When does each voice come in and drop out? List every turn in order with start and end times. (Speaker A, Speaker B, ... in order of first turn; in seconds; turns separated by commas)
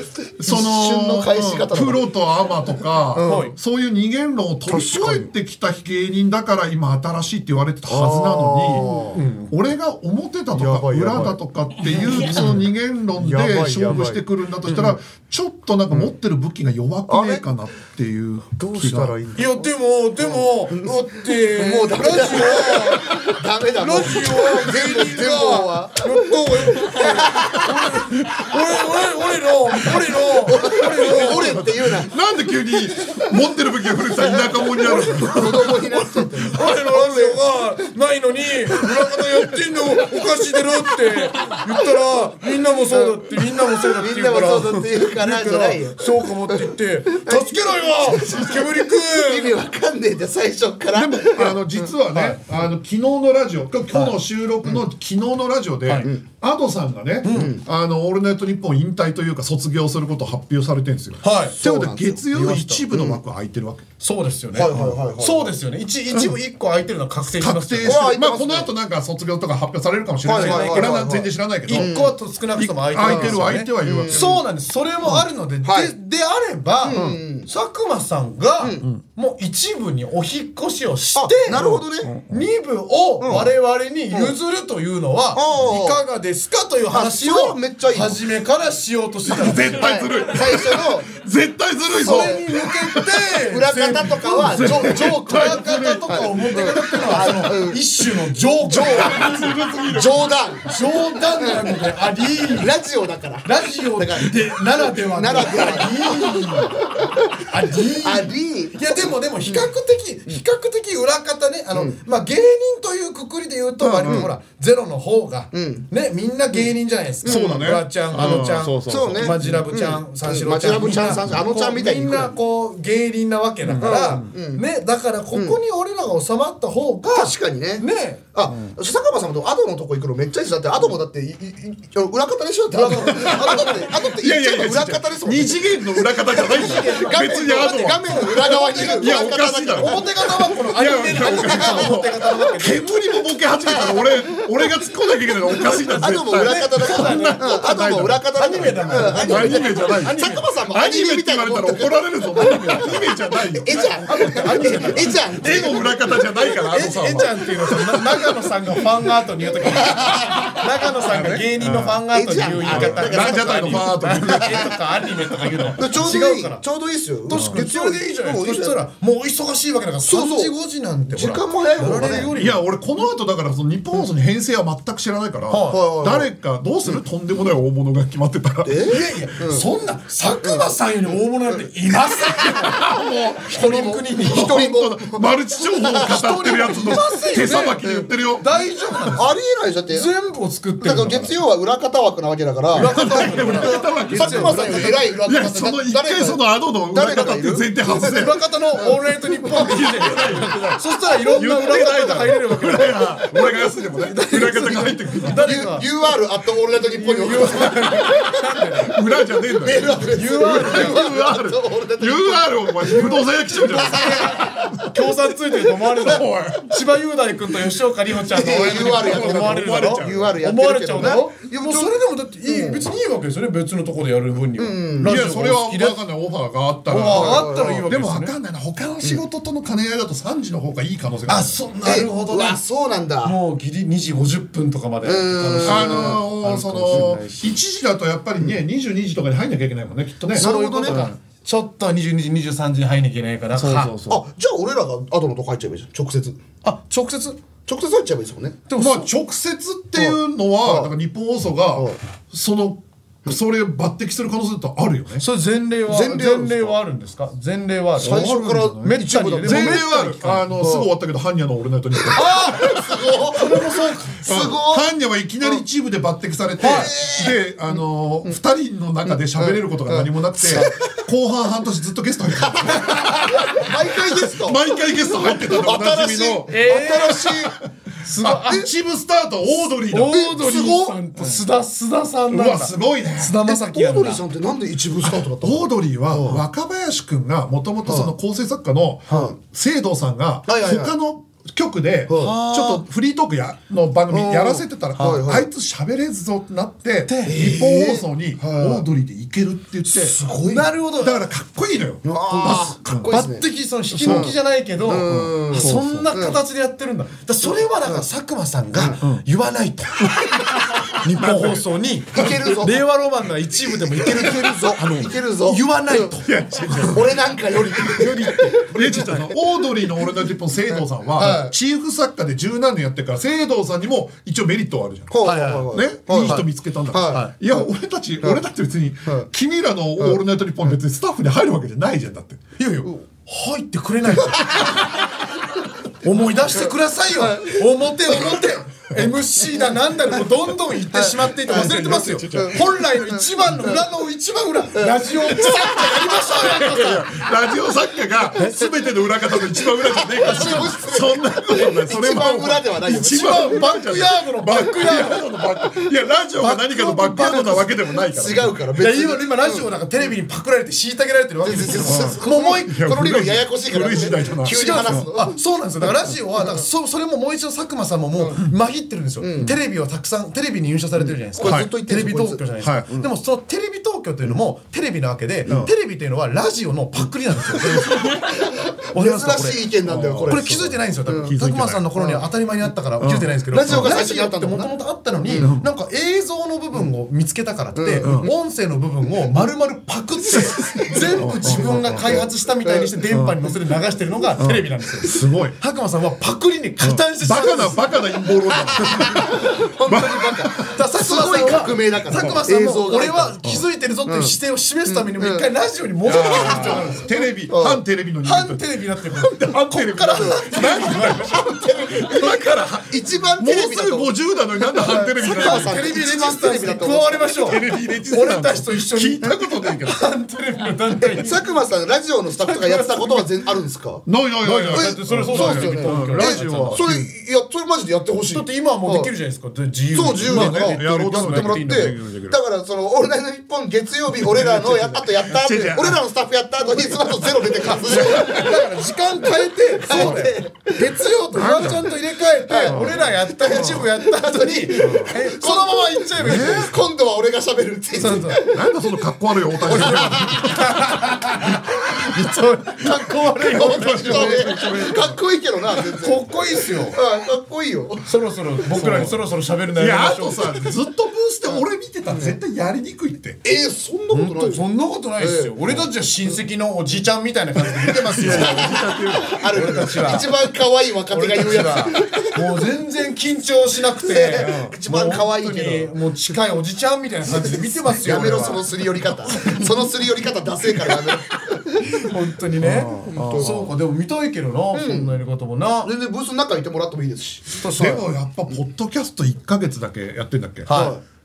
Speaker A: 0.4-8.9, Speaker B: 0.4-2.1, Speaker B: 3.1-3.5, Speaker C: 3.2-3.5, Speaker B: 4.7-5.3, Speaker B: 7.9-9.2, Speaker C: 9.1-9.6, Speaker A: 9.5-19.2, Speaker B: 10.5-14.2, Speaker C: 11.9-12.6, Speaker C: 14.7-15.0, Speaker B: 17.1-17.4, Speaker B: 18.6-27.7, Speaker C: 19.3-23.2, Speaker C: 23.8-31.6, Speaker B: 30.5-32.1, Speaker A: 30.9-36.3, Speaker B: 34.2-37.4, Speaker C: 36.5-49.6, Speaker B: 42.9-51.9, Speaker A: 50.9-63.9, Speaker C: 52.1-52.4, Speaker C: 53.9-54.2, Speaker C: 57.2-57.5, Speaker B: 57.3-57.6, Speaker C: 61.2-61.6, Speaker B: 61.6-62.3, Speaker C: 62.3-62.9, Speaker B: 62.9-63.2, Speaker C: 64.0-68.2, Speaker B: 64.5-65.5, Speaker A: 64.7-65.0, Speaker A: 67.3-71.9, Speaker B: 67.8-68.7, Speaker B: 70.2-72.2, Speaker C: 70.3-71.1, Speaker C: 71.7-81.7, Speaker A: 72.6-74.4, Speaker B: 73.0-74.4, Speaker B: 75.6-75.9, Speaker B: 76.8-77.5, Speaker A: 76.9-77.2, Speaker B: 78.6-78.8, Speaker B: 81.2-82.1, Speaker A: 81.5-82.4, Speaker C: 82.3-90.0, Speaker B: 83.2-83.5, Speaker B: 85.3-86.0, Speaker B: 86.9-88.2, Speaker A: 89.3-93.0, Speaker B: 89.7-91.1, Speaker C: 92.0-99.5, Speaker B: 92.0-92.4, Speaker B: 93.5-97.8, Speaker A: 94.5-96.2, Speaker B: 98.6-99.2, Speaker A: 98.7-100.4, Speaker B: 99.9-100.7, Speaker C: 100.7-102.7, Speaker B: 102.5-109.7, Speaker C: 103.4-106.8, Speaker A: 106.4-106.7, Speaker C: 107.5-128.3, Speaker A: 113.8-114.3, Speaker B: 114.0-114.3, Speaker B: 115.5-115.9, Speaker B: 117.2-122.3, Speaker A: 117.2-119.7, Speaker A: 121.1-121.4, Speaker A: 123.6-124.3, Speaker B: 123.8-124.6, Speaker B: 125.3-125.6, Speaker B: 127.0-142.0, Speaker C: 132.7-133.8, Speaker A: 133.1-140.0, Speaker C: 136.3-137.3, Speaker C: 138.1-142.9, Speaker A: 140.6-158.3, Speaker B: 143.7-144.1, Speaker B: 145.6-157.2, Speaker C: 146.4-147.6, Speaker C: 148.3-150.5, Speaker C: 154.1-155.6, Speaker C: 156.6-166.6, Speaker B: 159.7-160.6, Speaker A: 161.1-162.0, Speaker B: 162.1-164.6, Speaker A: 162.7-164.8, Speaker B: 165.8-168.8, Speaker C: 167.3-172.6, Speaker A: 167.3-167.6, Speaker B: 170.0-170.5, Speaker B: 171.1-172.3, Speaker A: 172.3-178.7, Speaker C: 175.5-175.8, Speaker B: 175.7-176.3, Speaker B: 178.6-179.7, Speaker C: 178.8-182.8, Speaker B: 180.4-180.7, Speaker A: 182.7-188.5, Speaker C: 183.5-184.7, Speaker B: 183.5-188.1, Speaker C: 186.0-187.8, Speaker C: 188.4-189.3, Speaker B: 189.1-190.1, Speaker C: 189.9-191.3, Speaker B: 190.8-198.1, Speaker C: 192.7-195.0, Speaker A: 192.7-198.6, Speaker C: 197.8-203.4, Speaker B: 198.8-199.7, Speaker A: 199.5-200.8, Speaker A: 201.3-205.5, Speaker B: 204.1-208.2, Speaker C: 204.4-205.9, Speaker C: 206.9-208.9, Speaker A: 208.8-214.8, Speaker B: 209.6-214.6, Speaker C: 210.1-211.1, Speaker C: 213.7-226.0, Speaker A: 215.9-216.7, Speaker B: 218.3-222.8, Speaker A: 218.6-220.4, Speaker B: 224.6-225.3, Speaker A: 225.0-231.6, Speaker C: 226.9-228.3, Speaker B: 227.0-227.9, Speaker C: 231.2-232.6, Speaker B: 231.8-233.4, Speaker C: 233.2-237.6, Speaker B: 235.0-236.2, Speaker A: 235.6-241.2, Speaker C: 240.3-243.9, Speaker B: 240.3-241.1, Speaker A: 243.5-244.2, Speaker B: 244.1-246.4, Speaker C: 246.6-247.4, Speaker B: 247.7-248.6, Speaker C: 248.7-249.1, Speaker A: 248.8-255.2, Speaker B: 249.9-250.9, Speaker B: 251.7-252.0, Speaker C: 255.2-260.5, Speaker B: 255.9-256.8, Speaker A: 258.0-276.9, Speaker B: 258.0-260.9, Speaker B: 262.0-264.9, Speaker C: 262.1-264.2, Speaker C: 266.6-266.9, Speaker B: 266.6-268.4, Speaker B: 269.1-271.0, Speaker B: 272.8-277.5, Speaker C: 276.5-278.7, Speaker A: 278.2-281.4, Speaker C: 279.9-284.2, Speaker B: 280.1-280.4, Speaker A: 282.3-283.4, Speaker B: 283.4-286.4, Speaker A: 285.4-300.2, Speaker B: 287.9-288.1, Speaker B: 289.1-289.4, Speaker B: 290.5-290.9, Speaker B: 292.1-292.4, Speaker C: 292.1-292.8, Speaker B: 294.1-295.5, Speaker C: 294.9-295.2, Speaker C: 297.1-297.5, Speaker B: 297.2-298.9, Speaker B: 299.9-300.7, Speaker C: 300.4-301.3, Speaker A: 300.9-303.1, Speaker B: 302.0-306.4, Speaker C: 302.3-310.4, Speaker A: 303.9-304.3, Speaker A: 305.0-306.1, Speaker B: 308.7-309.0, Speaker A: 310.1-311.6, Speaker C: 311.0-317.0, Speaker B: 312.1-312.8, Speaker A: 312.1-312.5, Speaker B: 313.9-316.1, Speaker A: 316.2-317.2, Speaker B: 316.9-319.3, Speaker C: 317.8-318.6, Speaker A: 318.0-325.1, Speaker B: 320.7-321.5, Speaker B: 325.1-327.6, Speaker C: 325.2-326.5, Speaker A: 325.7-332.5, Speaker C: 327.0-327.3, Speaker C: 332.6-334.9, Speaker C: 336.0-347.1, Speaker B: 337.1-337.6, Speaker B: 340.9-343.8, Speaker A: 341.4-342.6, Speaker B: 344.7-346.0, Speaker A: 346.5-358.6, Speaker B: 350.0-353.6, Speaker C: 350.2-350.8, Speaker C: 353.2-355.3, Speaker B: 356.4-359.7, Speaker C: 358.8-362.8, Speaker B: 361.4-366.6, Speaker A: 361.8-365.1, Speaker C: 364.5-378.3, Speaker B: 369.2-369.5, Speaker B: 371.3-373.1, Speaker A: 371.4-371.7, Speaker A: 372.6-372.9, Speaker B: 377.9-381.3, Speaker C: 378.9-379.7, Speaker A: 379.8-381.8, Speaker C: 380.2-397.8, Speaker B: 381.9-382.2, Speaker A: 383.0-384.0, Speaker B: 383.5-385.5, Speaker A: 385.4-385.7, Speaker B: 387.7-388.3, Speaker A: 388.0-388.3, Speaker A: 390.4-392.2, Speaker B: 390.5-392.9, Speaker A: 393.1-393.4, Speaker A: 394.4-395.6, Speaker A: 396.8-400.7, Speaker B: 398.7-403.4, Speaker C: 400.7-407.2, Speaker A: 402.1-402.4, Speaker B: 404.0-404.4, Speaker B: 404.9-405.5, Speaker A: 406.0-408.6, Speaker B: 406.2-406.9, Speaker B: 407.5-407.8, Speaker C: 408.2-409.5, Speaker A: 409.2-415.8, Speaker B: 409.7-417.6, Speaker C: 410.2-411.4, Speaker C: 415.2-421.4, Speaker A: 417.4-420.0, Speaker B: 421.0-429.1, Speaker C: 422.4-423.3, Speaker A: 424.1-427.1, Speaker C: 424.4-426.9, Speaker C: 428.3-432.0, Speaker B: 429.9-438.6, Speaker A: 430.2-432.4, Speaker A: 434.2-436.0, Speaker A: 436.6-438.6, Speaker C: 437.7-446.7, Speaker B: 439.8-441.8, Speaker A: 439.9-440.2, Speaker A: 441.3-441.9, Speaker B: 442.5-448.6, Speaker A: 442.7-443.9, Speaker A: 444.8-445.1, Speaker A: 446.2-446.7, Speaker C: 447.9-448.4, Speaker A: 448.4-450.7, Speaker B: 449.6-450.6, Speaker C: 449.7-454.8, Speaker A: 453.4-455.2, Speaker B: 453.5-458.1, Speaker C: 456.0-457.0, Speaker C: 458.1-460.7, Speaker A: 458.7-459.2, Speaker A: 459.7-463.4, Speaker B: 461.5-462.4, Speaker B: 463.4-464.6, Speaker C: 464.1-468.9, Speaker B: 465.2-465.8, Speaker A: 468.0-469.9, Speaker B: 468.0-472.4, Speaker C: 469.5-470.3, Speaker C: 471.1-478.7, Speaker B: 474.0-475.9, Speaker A: 474.4-474.7, Speaker B: 477.3-481.9, Speaker C: 482.0-485.9, Speaker A: 482.6-483.7, Speaker B: 483.1-483.7, Speaker B: 484.7-485.2, Speaker B: 485.8-488.0, Speaker C: 487.6-488.0, Speaker A: 487.7-490.7, Speaker C: 490.6-491.0, Speaker B: 490.7-491.0